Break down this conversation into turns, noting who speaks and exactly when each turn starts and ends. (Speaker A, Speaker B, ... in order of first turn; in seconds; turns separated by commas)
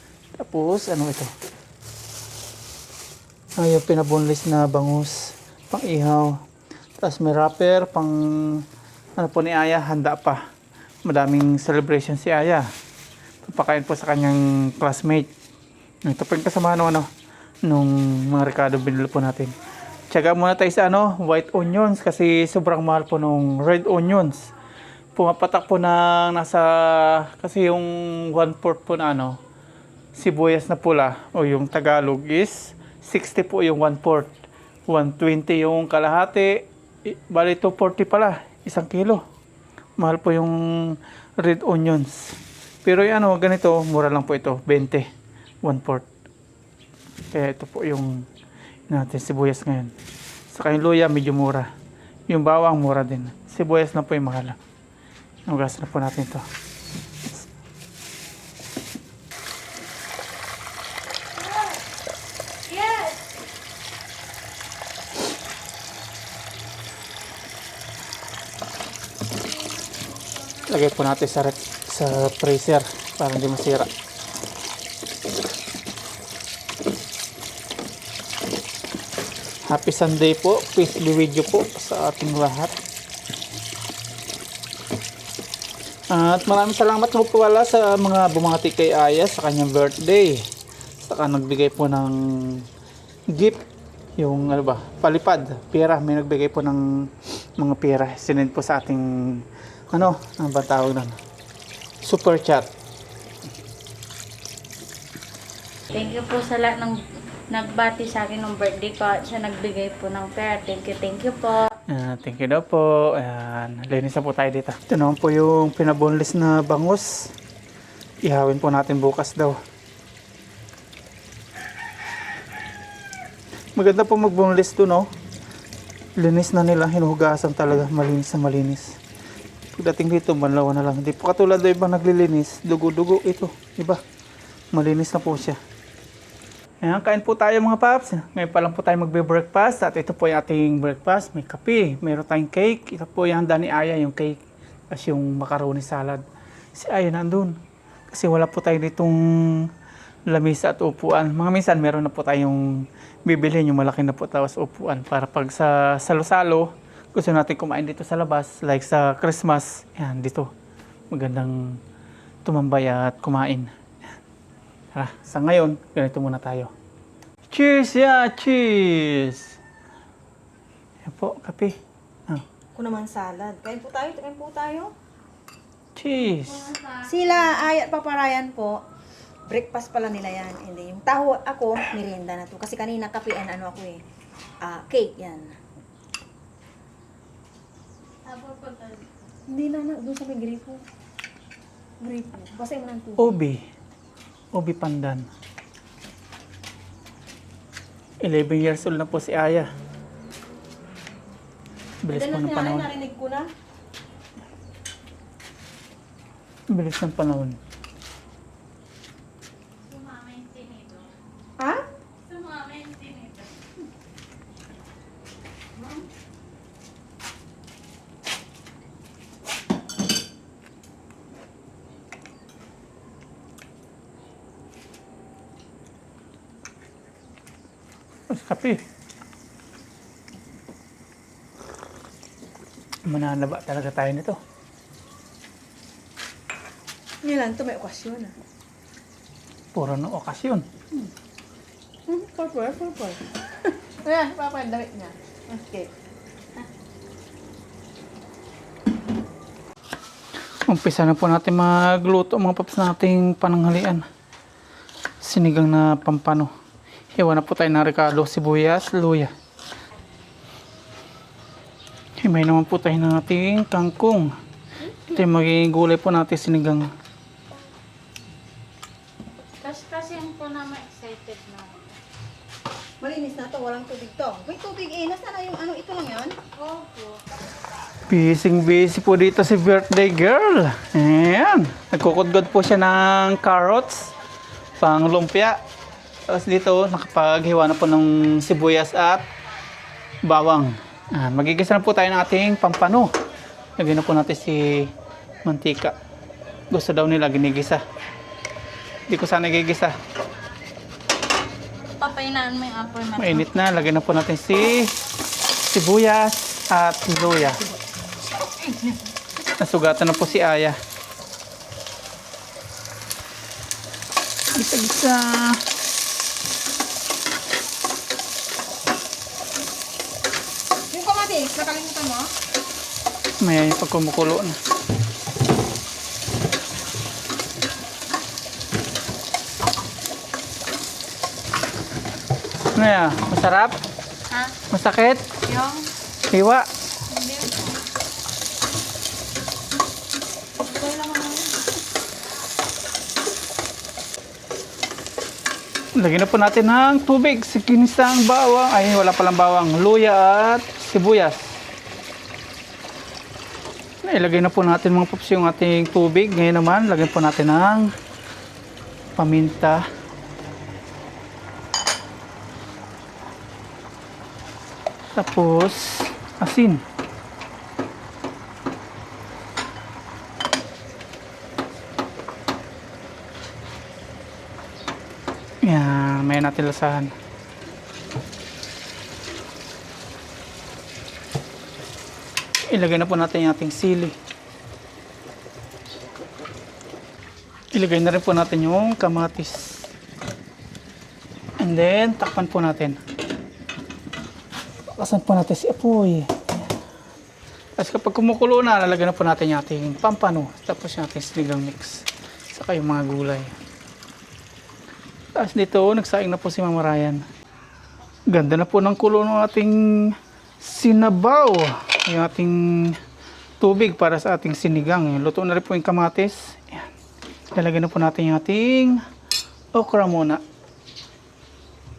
Speaker A: 0.4-1.3, Speaker A: 3.6-6.4, Speaker A: 7.0-8.6, Speaker A: 9.2-10.4, Speaker A: 11.0-12.7, Speaker A: 13.4-15.3, Speaker A: 16.1-17.1, Speaker A: 17.7-19.5, Speaker A: 20.1-24.5, Speaker A: 25.1-29.4, Speaker A: 30.1-34.3, Speaker A: 34.9-39.2, Speaker A: 40.0-42.1, Speaker A: 42.8-45.1, Speaker A: 45.6-46.0, Speaker A: 47.3-48.2, Speaker A: 48.9-49.9, Speaker A: 50.5-51.7, Speaker A: 52.3-54.6, Speaker A: 55.5-56.4, Speaker B: 61.4-61.8, Speaker B: 62.7-63.2, Speaker B: 69.6-70.6, Speaker A: 70.7-73.9, Speaker A: 79.7-82.7, Speaker A: 86.1-90.4, Speaker A: 91.0-92.6, Speaker A: 93.3-93.6, Speaker A: 94.2-101.2, Speaker A: 102.0-102.7, Speaker B: 105.9-107.0, Speaker B: 107.5-111.7, Speaker A: 111.9-117.3, Speaker A: 118.2-119.6, Speaker A: 123.8-125.1, Speaker A: 126.2-128.9, Speaker A: 129.7-134.0, Speaker A: 134.7-135.6, Speaker A: 136.8-144.4, Speaker A: 144.9-146.2, Speaker A: 146.7-147.6, Speaker A: 148.1-149.7, Speaker A: 150.3-160.5, Speaker A: 161.1-161.8, Speaker A: 162.4-163.7, Speaker A: 164.9-166.7, Speaker A: 167.5-169.5, Speaker A: 171.0-172.4, Speaker C: 172.7-174.9, Speaker A: 175.9-176.7, Speaker B: 176.6-177.5, Speaker C: 177.0-178.8, Speaker C: 179.5-184.0, Speaker C: 184.6-185.6, Speaker B: 188.2-189.1, Speaker C: 189.5-190.8, Speaker C: 192.0-193.3, Speaker A: 193.2-193.6, Speaker A: 194.5-195.2, Speaker A: 198.2-199.7, Speaker A: 202.0-202.9, Speaker C: 202.1-203.5, Speaker A: 206.7-207.6, Speaker B: 209.9-211.1, Speaker B: 212.2-213.6, Speaker A: 228.3-228.8, Speaker A: 233.1-234.4, Speaker C: 237.2-238.3, Speaker A: 239.7-240.7, Speaker C: 242.1-245.9, Speaker A: 250.7-254.0, Speaker A: 255.2-256.5, Speaker A: 257.1-259.3, Speaker A: 262.2-264.3, Speaker A: 265.1-266.9, Speaker B: 269.6-271.9, Speaker C: 273.0-276.4, Speaker B: 276.6-277.2, Speaker A: 278.1-284.1, Speaker A: 284.8-285.6, Speaker A: 286.3-289.2, Speaker A: 290.2-293.1, Speaker A: 293.8-294.9, Speaker A: 295.4-295.9, Speaker A: 296.7-297.8, Speaker A: 299.1-299.9, Speaker B: 302.0-303.6, Speaker A: 303.2-304.9, Speaker A: 305.7-307.6, Speaker B: 308.6-308.9, Speaker A: 309.6-310.8, Speaker A: 314.6-315.6, Speaker C: 320.9-322.3, Speaker A: 323.4-324.6, Speaker A: 332.7-333.7, Speaker A: 334.7-335.3, Speaker B: 335.5-335.9, Speaker A: 336.3-336.6, Speaker B: 337.1-337.8, Speaker B: 340.6-341.6, Speaker A: 346.0-351.5, Speaker A: 354.0-357.9, Speaker A: 359.2-359.8, Speaker A: 365.1-366.8, Speaker A: 375.6-377.1, Speaker A: 382.7-384.1, Speaker A: 387.7-389.9, Speaker A: 391.6-393.0, Speaker A: 394.9-396.3, Speaker A: 397.8-403.5, Speaker A: 405.4-407.2, Speaker A: 408.3-413.0, Speaker A: 413.6-416.9, Speaker A: 417.5-419.0, Speaker A: 419.7-420.4